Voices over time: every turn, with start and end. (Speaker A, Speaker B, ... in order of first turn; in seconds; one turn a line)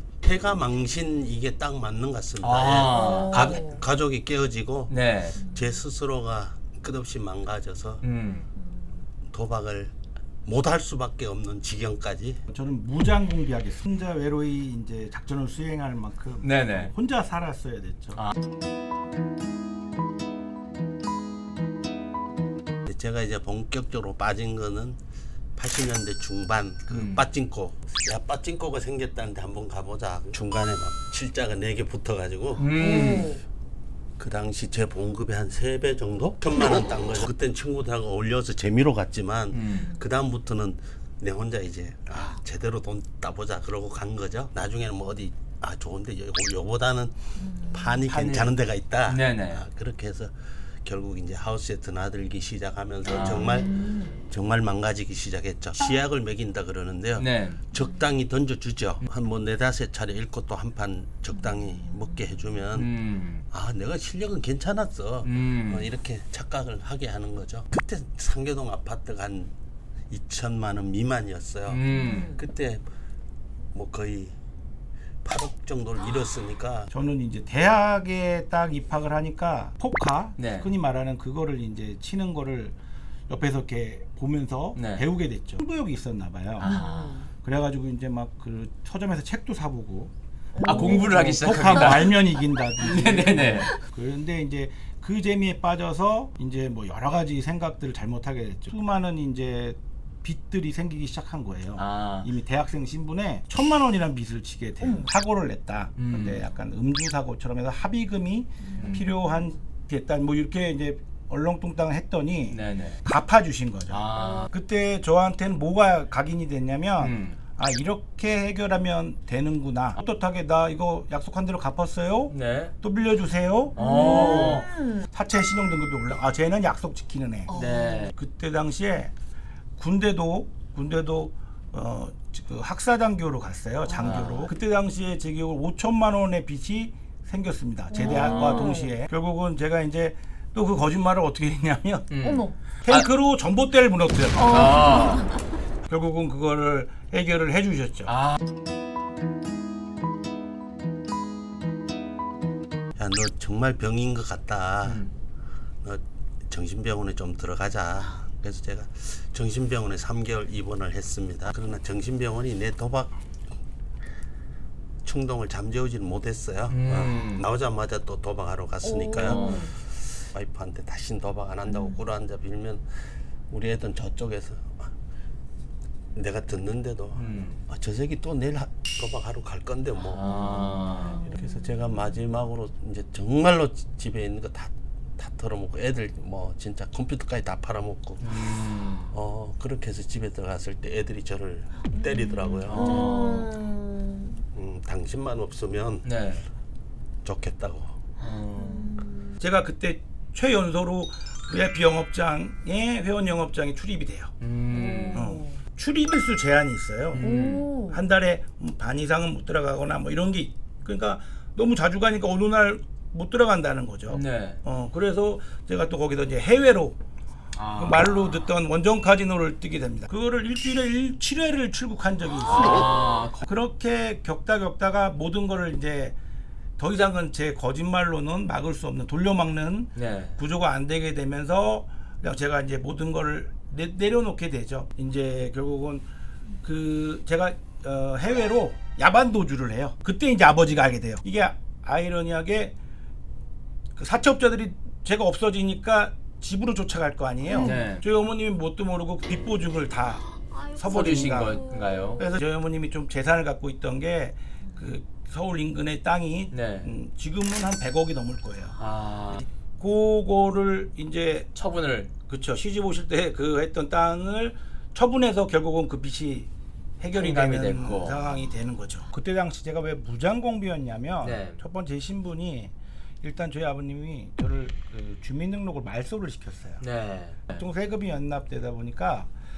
Speaker A: 0.2-8.0
Speaker B: 2.4-3.6
Speaker C: 2.9-3.9
Speaker B: 4.9-5.4
Speaker C: 5.4-5.8
Speaker B: 8.0-8.5
Speaker C: 8.5-9.0
Speaker A: 9.2-12.4
Speaker D: 12.5-18.3
Speaker B: 16.4-16.9
Speaker A: 22.9-25.0
Speaker A: 25.6-32.7
Speaker B: 26.9-27.2
Speaker B: 32.6-33.4
Speaker C: 32.8-33.4
Speaker A: 34.2-62.9
Speaker B: 39.5-39.9
Speaker C: 47.4-47.9
Speaker B: 48.1-48.5
Speaker B: 49.1-49.6
Speaker B: 53.1-53.6
Speaker C: 53.5-54.2
Speaker B: 57.2-57.6
Speaker B: 62.7-63.5
Speaker A: 63.5-69.5
Speaker B: 65.2-65.9
Speaker A: 70.1-72.9
Speaker B: 71.7-72.4
Speaker C: 71.9-72.4
Speaker A: 73.7-74.4
Speaker A: 75.2-76.9
Speaker D: 76.9-82.8
Speaker B: 80.4-80.7
Speaker D: 83.3-86.8
Speaker B: 84.8-85.0
Speaker B: 86.6-87.2
Speaker C: 86.7-87.3
Speaker D: 87.4-90.1
Speaker C: 90.5-92.0
Speaker B: 90.6-92.2
Speaker D: 90.6-129.1
Speaker B: 92.8-93.7
Speaker B: 101.8-102.3
Speaker B: 106.0-106.4
Speaker C: 108.6-109.3
Speaker B: 112.5-113.0
Speaker B: 113.9-114.5
Speaker C: 114.2-114.5
Speaker B: 117.0-117.4
Speaker B: 122.3-122.7
Speaker B: 123.8-124.7
Speaker C: 123.8-125.1
Speaker C: 127.5-128.1
Speaker B: 127.5-128.1
Speaker D: 129.8-142.1
Speaker B: 134.0-134.5
Speaker C: 137.9-139.0
Speaker B: 138.0-138.8
Speaker B: 142.1-143.1
Speaker C: 142.2-142.6
Speaker D: 142.8-144.8
Speaker C: 144.4-145.4
Speaker B: 144.4-145.2
Speaker D: 145.8-148.1
Speaker B: 148.1-148.4
Speaker A: 153.0-155.1
Speaker B: 154.8-155.1
Speaker A: 155.8-163.2
Speaker A: 165.0-174.9
Speaker B: 166.7-167.4
Speaker C: 168.8-169.7
Speaker B: 169.2-169.7
Speaker A: 176.2-180.4
Speaker B: 177.2-177.6
Speaker B: 180.1-181.3
Speaker C: 180.2-181.5
Speaker A: 181.2-188.5
Speaker B: 188.2-189.1
Speaker A: 189.1-193.2
Speaker C: 192.0-194.4
Speaker B: 192.7-193.5
Speaker A: 194.5-196.1
Speaker B: 196.0-196.5
Speaker A: 197.2-198.0
Speaker B: 198.2-198.9
Speaker C: 198.3-199.4
Speaker D: 199.4-204.3
Speaker B: 204.4-205.3
Speaker C: 204.7-205.6
Speaker D: 205.1-207.3
Speaker B: 207.1-207.7
Speaker C: 207.2-208.0
Speaker D: 207.9-217.0
Speaker B: 214.1-214.6
Speaker B: 217.5-218.5
Speaker D: 217.8-226.2
Speaker B: 222.5-223.4
Speaker D: 226.8-236.1
Speaker B: 229.9-230.4
Speaker D: 236.6-242.8
Speaker D: 244.0-251.6
Speaker B: 247.5-248.0
Speaker C: 250.4-252.4
Speaker B: 250.9-252.2
Speaker D: 252.2-258.8
Speaker B: 256.5-256.9
Speaker B: 258.8-259.4
Speaker D: 259.3-261.5
Speaker B: 261.6-262.1
Speaker D: 262.3-266.5
Speaker D: 267.0-276.8
Speaker B: 267.1-268.2
Speaker B: 271.2-271.6
Speaker B: 276.8-277.6
Speaker D: 277.5-279.3